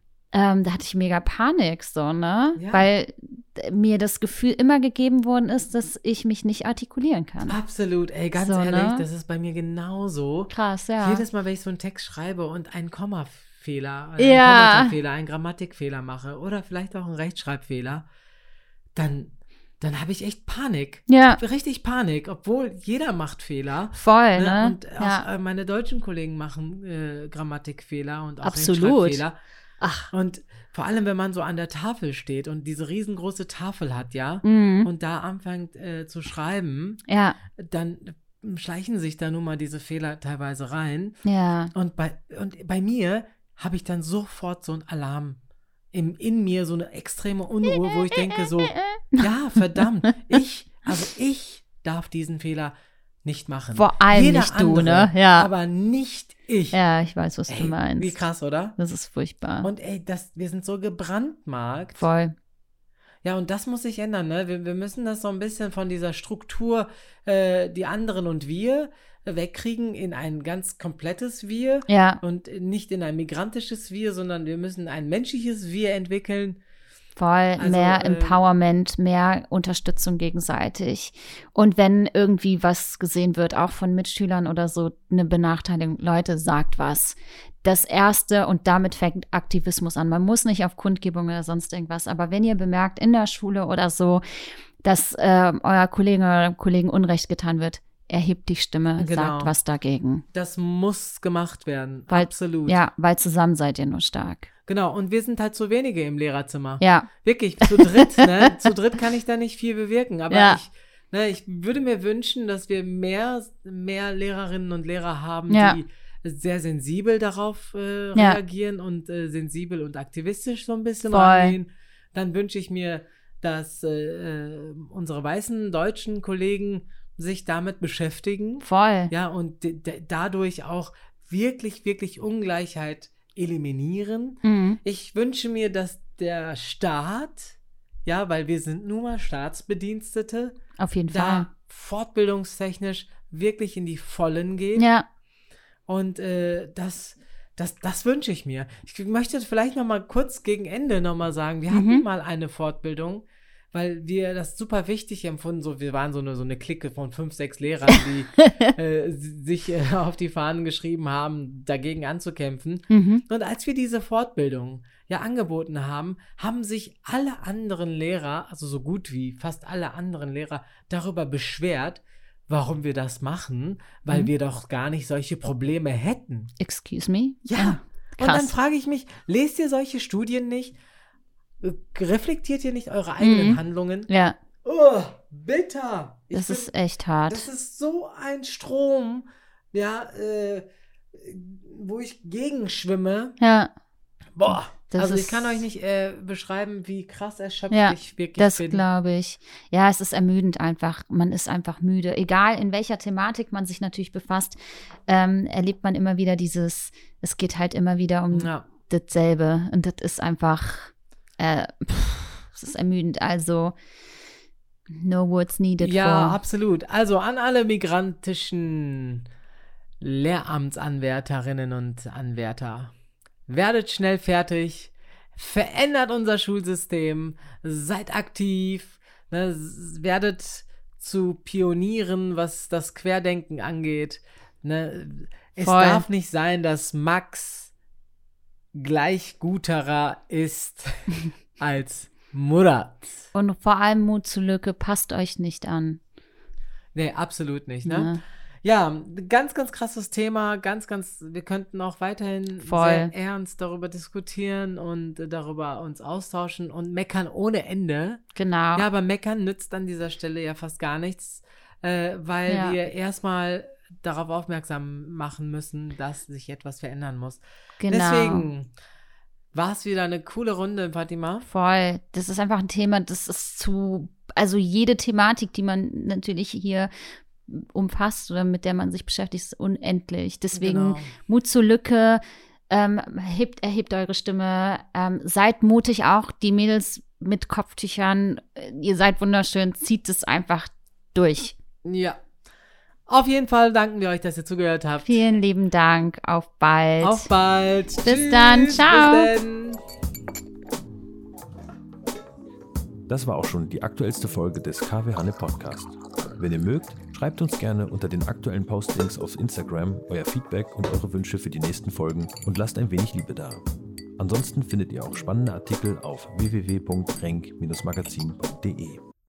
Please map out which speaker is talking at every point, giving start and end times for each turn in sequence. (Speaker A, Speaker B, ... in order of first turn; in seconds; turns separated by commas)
Speaker A: 0.3-7.6, Speaker B: 2.6-2.9, Speaker B: 7.5-18.1, Speaker A: 8.3-9.1, Speaker A: 10.5-11.2, Speaker A: 14.2-14.9, Speaker B: 18.9-29.4, Speaker A: 21.1-21.4, Speaker A: 23.9-25.3, Speaker A: 28.4-29.2, Speaker A: 29.8-30.1, Speaker B: 30.1-37.0, Speaker A: 34.4-34.9, Speaker A: 37.1-37.4, Speaker B: 37.5-41.2, Speaker A: 41.2-41.7, Speaker B: 41.7-45.4, Speaker B: 45.9-56.8, Speaker A: 48.1-49.3, Speaker A: 53.8-55.5, Speaker A: 56.7-58.2, Speaker B: 57.5-58.8, Speaker A: 58.8-59.7, Speaker B: 59.6-62.0, Speaker A: 62.0-62.4, Speaker B: 63.2-76.6, Speaker A: 71.9-72.2, Speaker A: 77.2-100.2, Speaker B: 77.6-78.4, Speaker B: 99.0-99.5, Speaker B: 100.3-102.8, Speaker A: 102.1-104.5, Speaker B: 104.7-140.6, Speaker A: 106.8-107.1, Speaker A: 107.6-108.7, Speaker A: 110.3-110.6, Speaker A: 115.5-115.8, Speaker A: 121.1-121.6, Speaker A: 128.6-129.1, Speaker A: 134.4-134.8, Speaker A: 140.8-141.5, Speaker B: 141.1-144.9, Speaker A: 144.8-145.1, Speaker B: 145.9-176.5, Speaker A: 151.7-152.0, Speaker A: 162.9-163.2, Speaker A: 176.6-178.6, Speaker B: 177.4-180.8, Speaker B: 181.6-184.1, Speaker A: 183.2-184.4, Speaker B: 184.6-186.7, Speaker A: 186.3-187.5, Speaker B: 187.3-193.4, Speaker A: 193.4-193.7, Speaker B: 194.3-198.8, Speaker A: 194.5-195.6, Speaker A: 197.7-213.8, Speaker B: 208.3-208.7, Speaker A: 214.9-216.4, Speaker B: 215.8-219.2, Speaker B: 220.0-222.9, Speaker B: 223.5-237.7, Speaker A: 235.6-236.1, Speaker B: 238.7-243.3, Speaker A: 243.3-246.0, Speaker B: 246.9-258.2, Speaker A: 247.8-248.2, Speaker A: 252.6-253.1, Speaker A: 258.4-258.9, Speaker B: 258.8-268.7, Speaker A: 262.5-262.8, Speaker A: 267.8-268.5, Speaker B: 269.5-271.5, Speaker A: 271.4-276.9, Speaker A: 277.5-291.6, Speaker B: 280.6-281.1, Speaker B: 291.8-292.2, Speaker B: 293.1-295.2, Speaker A: 295.1-297.3, Speaker B: 297.0-299.8, Speaker A: 298.0-299.3, Speaker C: 303.1-313.6, Speaker C: 314.2-319.0